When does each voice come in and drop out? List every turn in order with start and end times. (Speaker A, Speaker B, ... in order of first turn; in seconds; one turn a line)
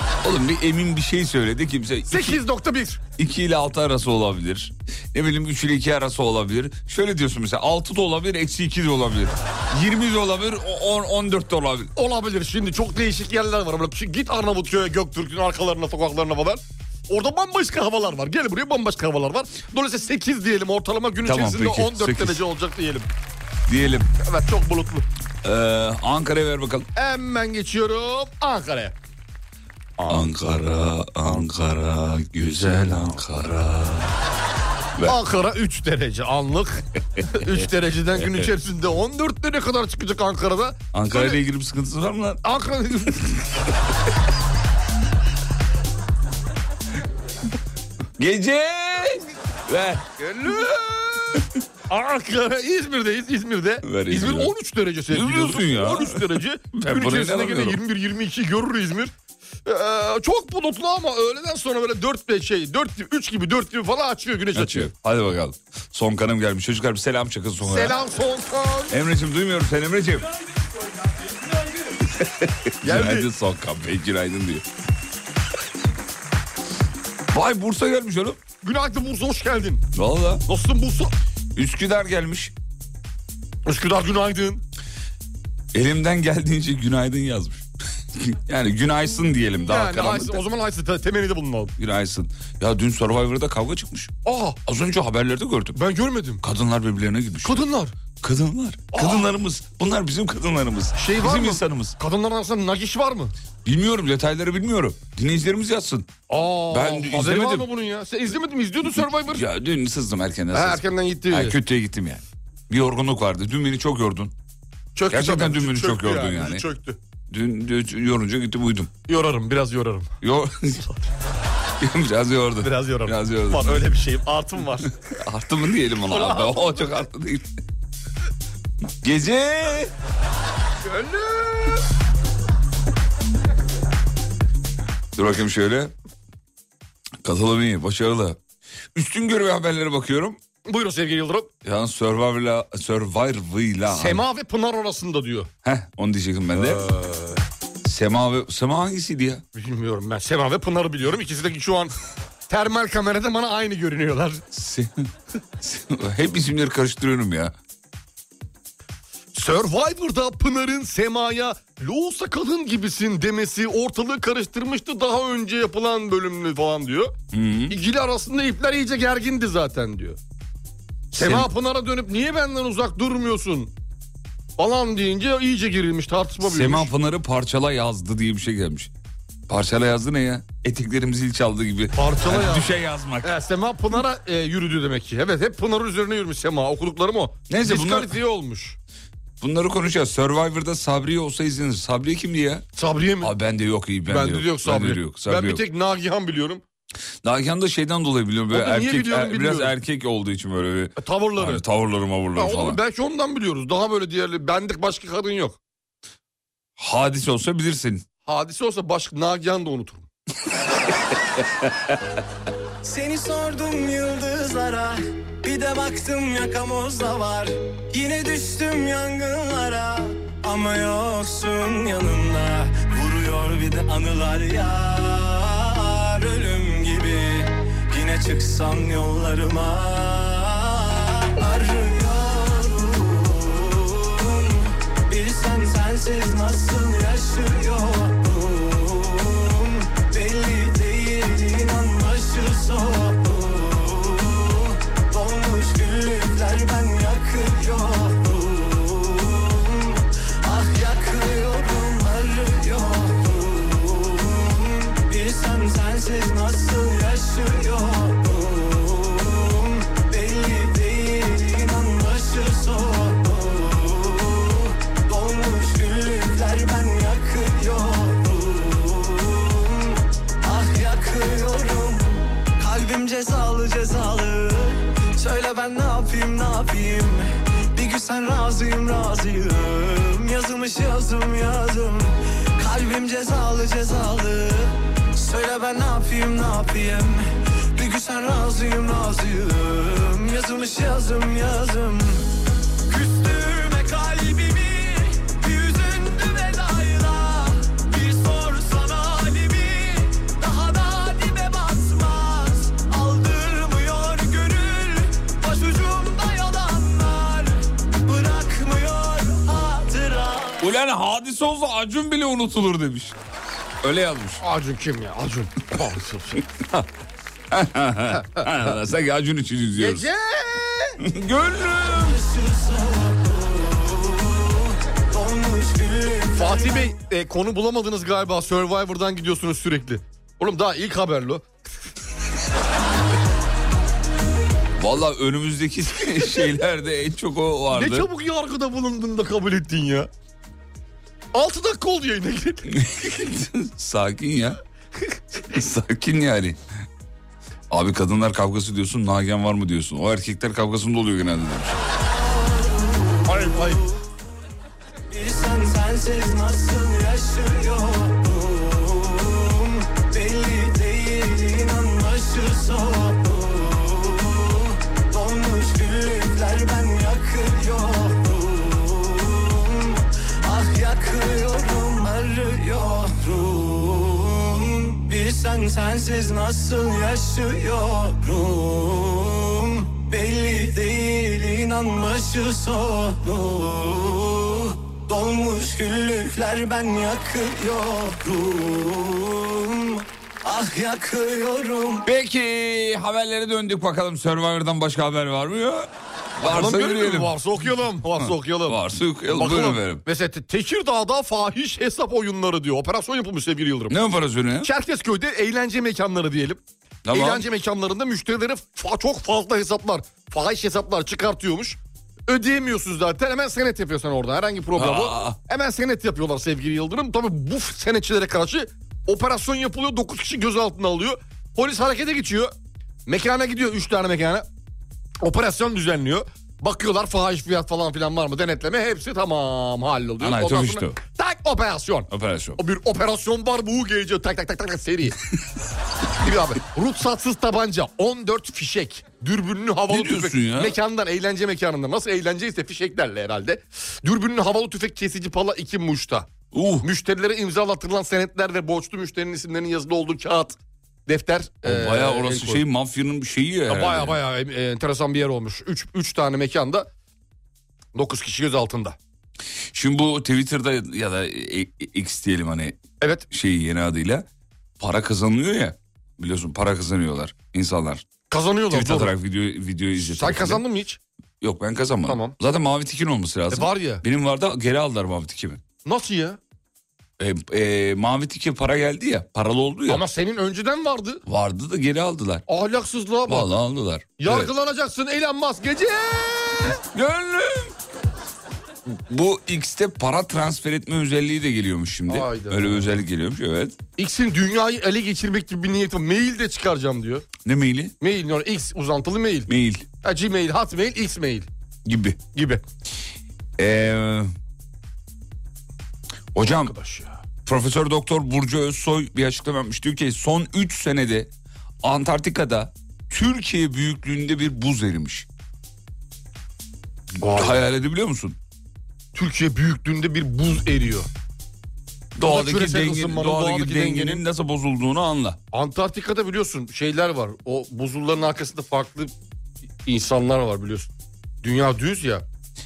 Speaker A: 0.2-2.4
Speaker B: 2.1-3.0
Speaker A: 3.2-11.9
Speaker B: 11.9-23.1
Speaker A: 21.2-22.4
Speaker A: 23.7-24.1
Speaker B: 24.2-25.1
Speaker A: 25.4-26.9
Speaker B: 26.9-28.9
Speaker B: 30.0-30.3
Speaker A: 30.1-34.1
Speaker B: 35.0-41.4
Speaker A: 40.9-42.4
Speaker B: 42.4-43.4
Speaker A: 48.2-50.7
Speaker B: 50.3-51.0
Speaker B: 51.9-59.1
Speaker A: 53.8-54.5
Speaker A: 55.1-57.8
Speaker B: 59.6-64.9
Speaker A: 64.5-68.0
Speaker B: 67.6-69.0
Speaker A: 68.9-70.2
Speaker A: 72.1-74.6
Speaker B: 72.8-73.3
Speaker A: 77.3-78.4
Speaker B: 78.6-79.8
Speaker A: 80.0-80.4
Speaker B: 80.5-81.1
Speaker A: 81.5-82.5
Speaker B: 83.6-84.6
Speaker A: 85.7-87.6
Speaker A: 88.2-90.4
Speaker B: 89.6-91.7
Speaker A: 91.8-94.1
Speaker B: 94.2-94.6
Speaker A: 94.7-95.8
Speaker B: 95.8-96.4
Speaker A: 96.4-102.0
Speaker B: 97.4-98.0
Speaker B: 98.9-99.3
Speaker B: 101.0-103.3
Speaker A: 103.6-106.1
Speaker B: 106.3-109.4
Speaker A: 106.7-107.7
Speaker A: 109.3-114.3
Speaker B: 110.5-111.6
Speaker B: 114.9-117.0
Speaker A: 115.1-116.6
Speaker A: 117.3-118.9
Speaker B: 119.1-120.1
Speaker A: 120.2-120.8
Speaker A: 121.8-123.8
Speaker B: 122.6-124.9
Speaker A: 125.2-127.4
Speaker B: 126.1-126.9
Speaker A: 129.0-129.9
Speaker B: 130.8-131.8
Speaker A: 135.1-135.9
Speaker A: 137.2-138.4
Speaker A: 138.9-140.4
Speaker B: 140.6-141.5
Speaker A: 141.6-144.2
Speaker B: 143.9-145.5
Speaker A: 145.6-146.8
Speaker B: 146.6-147.4
Speaker A: 147.8-149.4
Speaker B: 149.5-151.9
Speaker B: 152.5-154.4
Speaker A: 154.5-155.1
Speaker A: 155.6-157.5
Speaker B: 159.3-167.1
Speaker A: 167.3-167.8
Speaker B: 167.7-170.2
Speaker B: 171.1-173.7
Speaker A: 171.1-171.5
Speaker B: 174.6-176.9
Speaker A: 176.4-178.9
Speaker A: 179.5-183.3
Speaker B: 181.9-188.8
Speaker A: 187.5-188.1
Speaker A: 189.4-192.6
Speaker B: 192.8-193.3
Speaker A: 193.2-195.6
Speaker B: 194.1-196.6
Speaker A: 197.2-202.8
Speaker B: 198.5-199.7
Speaker B: 201.0-201.6
Speaker B: 202.3-205.6
Speaker A: 206.8-208.0
Speaker B: 208.2-210.1
Speaker C: 212.8-287.2
Speaker C: 287.8-292.2
Speaker C: 292.9-310.7
Speaker A: 310.6-313.1
Speaker A: 313.8-314.4
Speaker B: 314.4-316.4
Speaker A: 317.5-320.1
Speaker B: 319.8-321.0
Speaker A: 321.0-322.2
Speaker C: 322.0-326.9
Speaker B: 326.3-331.4
Speaker A: 334.8-338.1
Speaker B: 337.7-340.1
Speaker B: 341.3-342.7
Speaker A: 342.7-344.6
Speaker A: 345.5-346.6
Speaker A: 347.7-351.8
Speaker B: 353.3-353.8
Speaker C: 355.1-392.1
Speaker A: 392.1-397.4
Speaker B: 396.4-404.0
Speaker A: 398.2-400.0
Speaker A: 403.9-404.7
Speaker B: 404.6-422.5
Speaker A: 407.1-407.4
Speaker A: 414.8-415.4
Speaker B: 423.1-424.4
Speaker B: 425.2-435.2
Speaker A: 430.2-431.0
Speaker A: 432.1-432.6
Speaker B: 436.2-452.6
Speaker A: 439.9-440.8
Speaker A: 446.5-446.9
Speaker A: 451.6-454.2
Speaker B: 453.7-456.9
Speaker B: 457.9-459.0
Speaker A: 459.7-462.8
Speaker B: 463.0-463.3
Speaker A: 463.3-464.2
Speaker A: 464.8-468.1
Speaker B: 468.3-469.1
Speaker A: 468.7-470.6
Speaker B: 470.0-471.0
Speaker A: 471.4-475.6
Speaker B: 472.1-472.4
Speaker B: 473.5-474.0
Speaker B: 475.8-476.4
Speaker A: 477.2-480.0
Speaker B: 479.9-481.2
Speaker A: 481.2-482.4
Speaker B: 482.5-483.5
Speaker A: 483.3-484.5
Speaker B: 484.2-486.8
Speaker A: 486.9-487.7
Speaker A: 488.9-493.8
Speaker B: 492.1-492.9
Speaker B: 494.0-497.3
Speaker A: 497.4-497.9
Speaker B: 498.0-499.5
Speaker A: 499.5-499.9
Speaker B: 500.0-501.5
Speaker A: 501.9-502.2
Speaker B: 502.3-502.6
Speaker A: 503.6-504.3
Speaker A: 506.3-506.7
Speaker B: 506.4-507.2
Speaker A: 507.4-511.3
Speaker A: 511.8-515.2
Speaker B: 517.2-517.6
Speaker A: 517.2-518.4
Speaker B: 519.1-521.1
Speaker A: 522.1-525.4
Speaker B: 522.2-524.2
Speaker B: 525.5-529.1
Speaker B: 529.9-530.9
Speaker B: 531.4-532.2